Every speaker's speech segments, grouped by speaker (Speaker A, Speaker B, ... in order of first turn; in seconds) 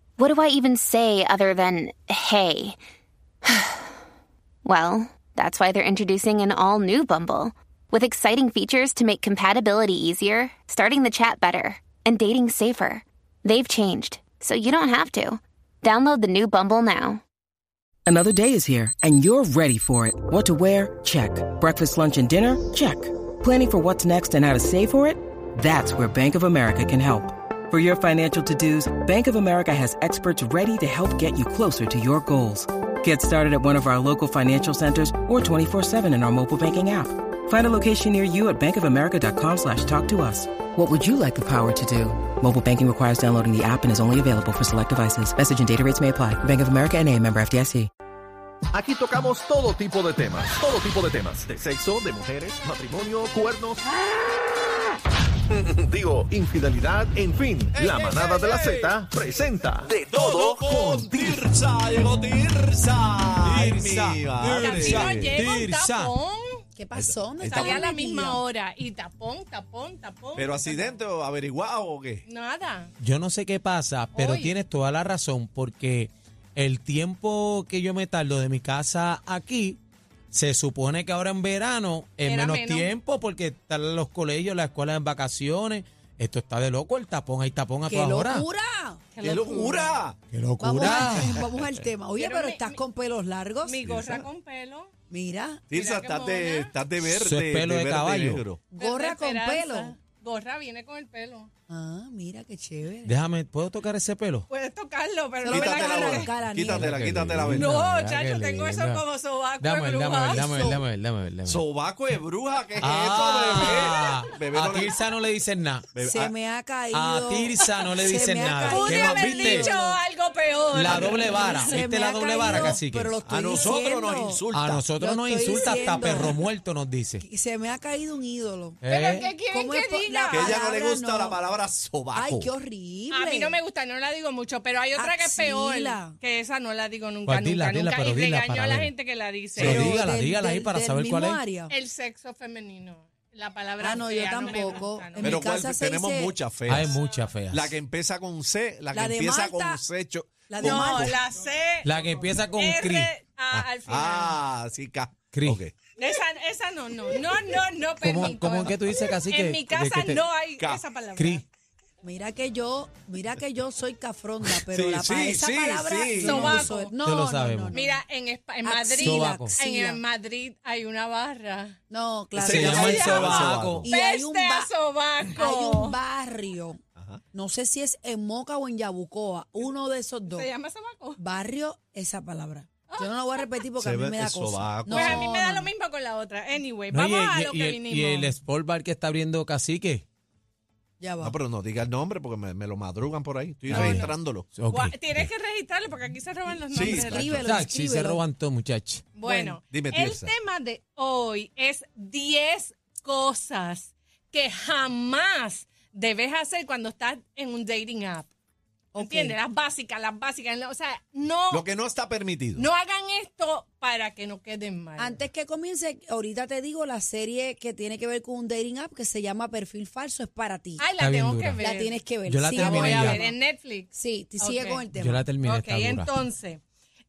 Speaker A: 0.2-2.8, 3.4-3.9, 4.6-17.2
Speaker B: 18.1-47.9
Speaker C: 48.7-53.8, 55.7-61.4
Speaker D: 57.7-65.4, 66.9-67.9, 70.3-72.2, 89.2-90.2, 93.8-94.3, 95.7-98.6, 105.5-107.7, 111.5-115.0, 115.9-116.3, 120.9-121.4, 123.2-124.8, 130.3-132.5, 139.6-139.9, 145.2-147.0, 147.5-151.1, 153.5-155.7, 164.7-166.7, 172.3-173.9, 176.9-177.2, 183.8-185.3, 191.2-194.5, 196.7-197.6, 199.7-200.3, 211.5-212.7
Speaker E: 63.4-66.1, 73.0-79.8, 80.3-88.5, 90.3-91.7, 97.0-98.4, 103.0-104.5, 106.7-109.0, 109.6-111.6, 112.8-115.9, 116.9-119.7, 120.7-123.2, 124.5-127.2, 128.8-129.3, 137.2-138.9, 139.5-141.4, 146.7-147.7, 151.8-153.1, 155.3-155.6, 158.0-160.3, 161.2-161.4, 167.0-167.8, 169.0-169.6, 172.4-173.9, 186.9-190.0, 193.7-195.3, 197.4-199.0, 221.0-221.6, 222.2-223.2, 224.9-226.1
Speaker F: 64.5-66.6, 67.4-71.0, 72.2-72.9, 74.1-74.5, 82.2-82.9, 89.1-90.0, 92.2-92.8, 93.6-94.9, 95.7-96.7, 98.8-101.5, 104.5-106.3, 107.5-110.8, 113.5-114.2, 118.6-121.8, 125.6-126.3, 128.9-130.6, 133.1-140.0, 141.7-145.4, 150.6-154.4, 155.9-161.4, 166.2-166.9, 167.7-171.8, 172.7-176.0, 180.3-181.2, 182.9-183.6, 184.9-188.3, 193.7-194.1, 194.7-197.4, 199.1-208.3, 208.9-211.6, 212.6-215.2, 220.8-222.0, 222.5-224.8, 225.4-226.6
Speaker G: 66.8-68.4, 87.8-89.0, 90.6-93.9, 95.1-95.6, 98.7-99.9, 101.7-103.1, 105.4-106.9, 110.4-110.8, 116.0-120.0, 120.9-124.4, 125.0-126.4, 127.2-128.8, 129.5-131.4, 132.1-133.6, 134.9-136.2, 139.6-141.7, 143.8-146.3, 148.9-149.8, 150.5-151.2, 162.0-168.0, 168.6-170.0, 171.9-173.1, 173.8-174.7, 175.2-176.8, 177.3-180.5, 181.2-185.7, 191.0-191.3, 193.8-194.0, 196.5-198.2, 199.2-199.6, 208.9-209.4, 215.0-220.8, 221.6-223.4, 223.9-225.2